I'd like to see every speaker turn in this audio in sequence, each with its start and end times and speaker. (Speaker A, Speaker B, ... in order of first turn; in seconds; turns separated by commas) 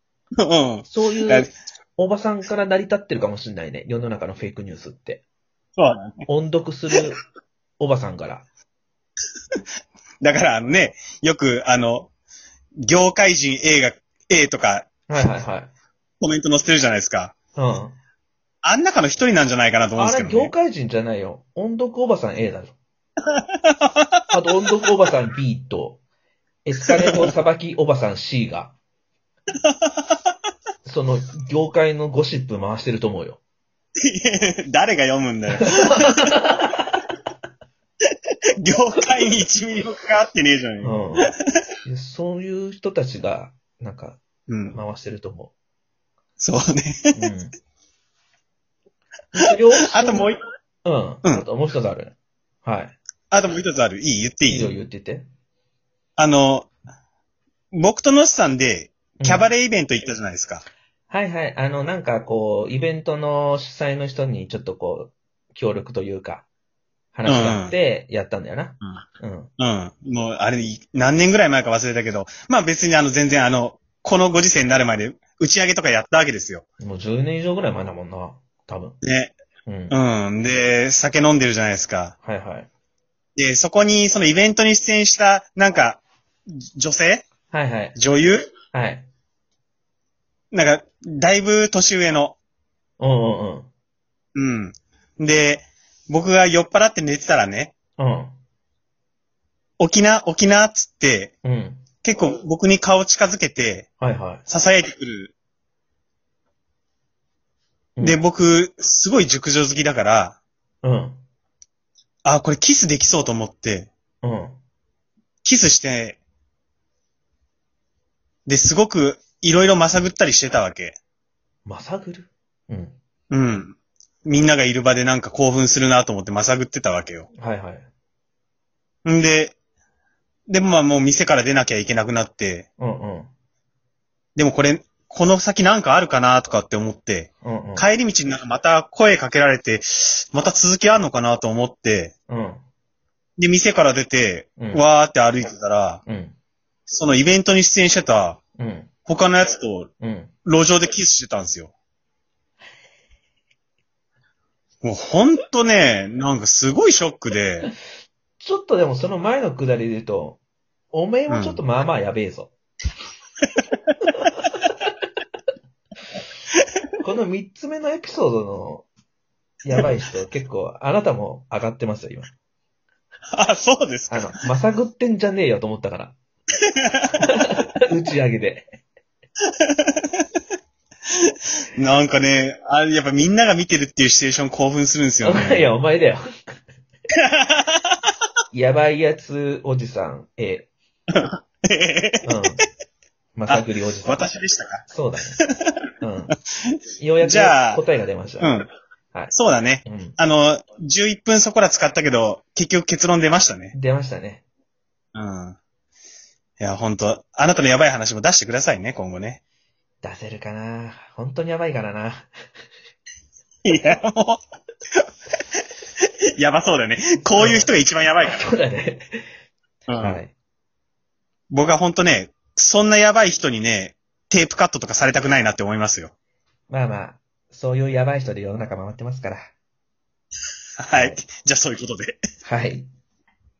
Speaker A: 0.4-1.5, Speaker B: 0.9-5.2, Speaker A: 5.8-6.2, Speaker B: 6.3-7.2, Speaker B: 7.8-8.5, Speaker A: 10.2-12.1, Speaker A: 12.8-14.9, Speaker B: 15.1-15.7, Speaker A: 16.2-17.3, Speaker B: 17.6-18.0, Speaker A: 18.6-20.5, Speaker B: 19.9-22.8, Speaker A: 23.6-24.0, Speaker B: 24.3-26.0, Speaker B: 26.6-28.8, Speaker B: 30.8-33.4, Speaker A: 34.0-36.3, Speaker B: 35.6-36.9, Speaker A: 38.6-41.3, Speaker B: 40.8-41.3, Speaker B: 41.8-44.2, Speaker A: 44.5-44.8, Speaker B: 44.7-45.5, Speaker A: 46.4-47.1, Speaker B: 47.1-47.5, Speaker B: 49.3-50.3, Speaker A: 49.9-50.4, Speaker B: 50.8-53.0, Speaker A: 53.3-54.7, Speaker B: 54.5-55.3, Speaker A: 56.2-56.7, Speaker A: 57.7-60.6, Speaker B: 59.2-59.5, Speaker B: 61.1-66.5, Speaker B: 67.1-69.5, Speaker A: 67.2-67.8, Speaker A: 69.6-76.6, Speaker B: 76.8-79.0, Speaker A: 79.0-79.3, Speaker B: 79.7-80.0, Speaker A: 79.9-82.1, Speaker B: 82.2-82.7, Speaker A: 83.3-86.0, Speaker A: 86.8-87.3, Speaker B: 87.5-87.9, Speaker A: 87.9-88.5, Speaker B: 88.7-89.1, Speaker A: 90.5-92.4, Speaker B: 93.0-93.7, Speaker A: 94.3-97.7, Speaker B: 98.0-98.3, Speaker A: 99.8-101.3, Speaker B: 101.4-101.8, Speaker A: 102.0-103.9, Speaker B: 104.0-104.4, Speaker A: 104.5-105.3, Speaker A: 108.0-110.4, Speaker B: 110.8-111.2, Speaker A: 112.2-113.9, Speaker B: 114.2-114.6, Speaker A: 115.4-116.2, Speaker A: 118.5-121.0, Speaker B: 121.7-123.0, Speaker A: 123.3-127.3, Speaker B: 127.4-127.9, Speaker A: 129.1-129.5, Speaker A: 130.5-132.7, Speaker B: 132.8-133.3, Speaker A: 134.3-142.1, Speaker B: 137.4-137.9, Speaker B: 142.3-142.6, Speaker A: 143.4-146.0, Speaker B: 144.6-144.8, Speaker B: 146.1-146.3, Speaker A: 146.9-148.4, Speaker B: 148.6-148.9, Speaker A: 149.1-149.9, Speaker B: 150.0-150.3, Speaker A: 150.4-151.7, Speaker A: 154.8-157.7, Speaker B: 158.4-160.4, Speaker B: 160.9-162.5, Speaker A: 161.3-161.6, Speaker B: 164.2-164.5, Speaker B: 167.0-168.9, Speaker B: 169.6-172.3, Speaker A: 173.3-174.3, Speaker B: 174.1-176.2, Speaker A: 176.8-177.4, Speaker B: 177.1-178.8, Speaker A: 179.6-179.9, Speaker A: 181.8-185.7, Speaker B: 185.2-186.6, Speaker A: 187.3-187.8, Speaker B: 188.5-190.7, Speaker A: 191.1-192.3, Speaker B: 192.2-192.6, Speaker B: 193.3-194.2, Speaker A: 193.5-194.8, Speaker B: 194.9-195.4, Speaker A: 195.4-195.7, Speaker B: 196.0-196.3, Speaker B: 197.0-198.5, Speaker A: 197.2-197.8, Speaker A: 198.4-198.7, Speaker B: 199.1-200.2, Speaker A: 199.3-203.7, Speaker B: 203.7-204.4, Speaker A: 205.1-205.6, Speaker A: 206.6-209.4, Speaker B: 210.0-212.3, Speaker A: 213.6-214.4, Speaker A: 216.4-218.4, Speaker B: 217.4-217.7, Speaker B: 218.2-219.2, Speaker A: 219.9-220.2, Speaker B: 220.0-220.3, Speaker A: 221.5-226.1, Speaker B: 226.7-229.5, Speaker A: 230.8-232.2, Speaker B: 232.4-232.9